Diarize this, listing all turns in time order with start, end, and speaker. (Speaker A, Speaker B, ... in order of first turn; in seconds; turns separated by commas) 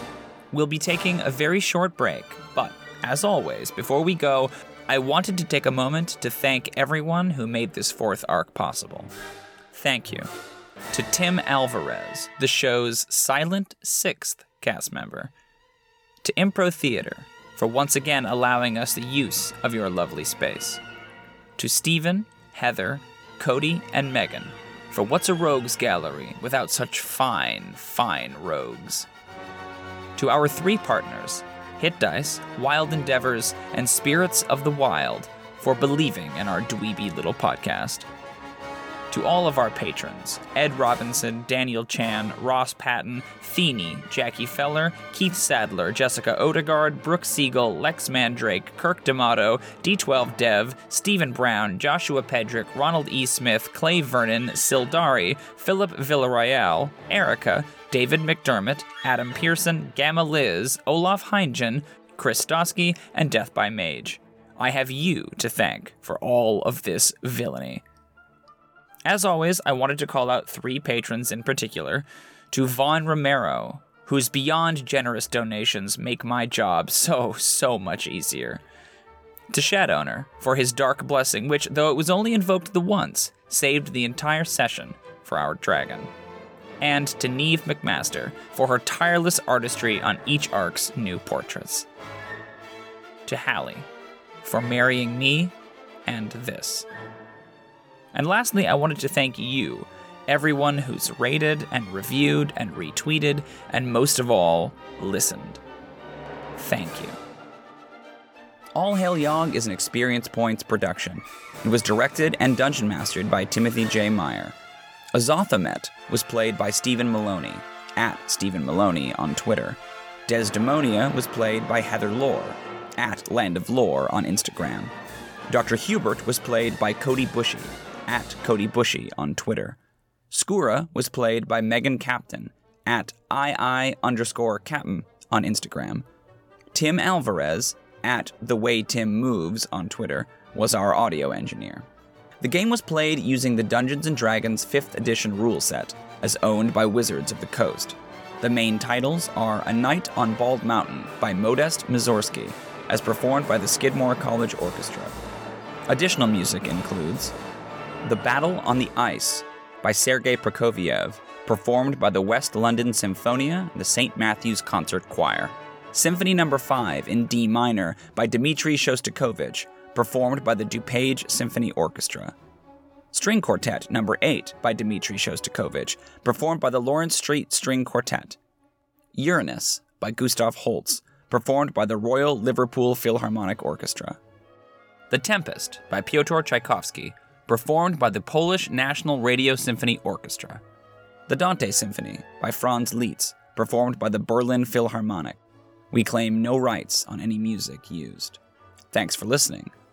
Speaker A: 0.5-9.1, Speaker A: 9.7-10.3, Speaker A: 10.9-15.3, Speaker A: 16.2-20.8, Speaker A: 21.6-29.1, Speaker A: 30.1-38.1, Speaker A: 39.1-67.8, Speaker A: 69.0-78.6, Speaker A: 79.5-86.1, Speaker A: 86.8-91.9, Speaker A: 93.2-93.9, Speaker A: 94.4-95.5, Speaker A: 96.0-96.9, Speaker A: 98.1-105.6, Speaker A: 106.5-107.2, Speaker A: 108.7-114.5, Speaker A: 115.1-124.9, Speaker A: 125.5-129.8, Speaker A: 130.3-136.1, Speaker A: 136.7-141.8, Speaker A: 142.4-155.2, Speaker A: 155.9-157.3, Speaker A: 158.0-172.3, Speaker A: 173.1-178.4, Speaker A: 179.1-184.2, Speaker A: 185.1-190.6, Speaker A: 191.3-195.4, Speaker A: 195.9-198.4, Speaker A: 198.9-199.7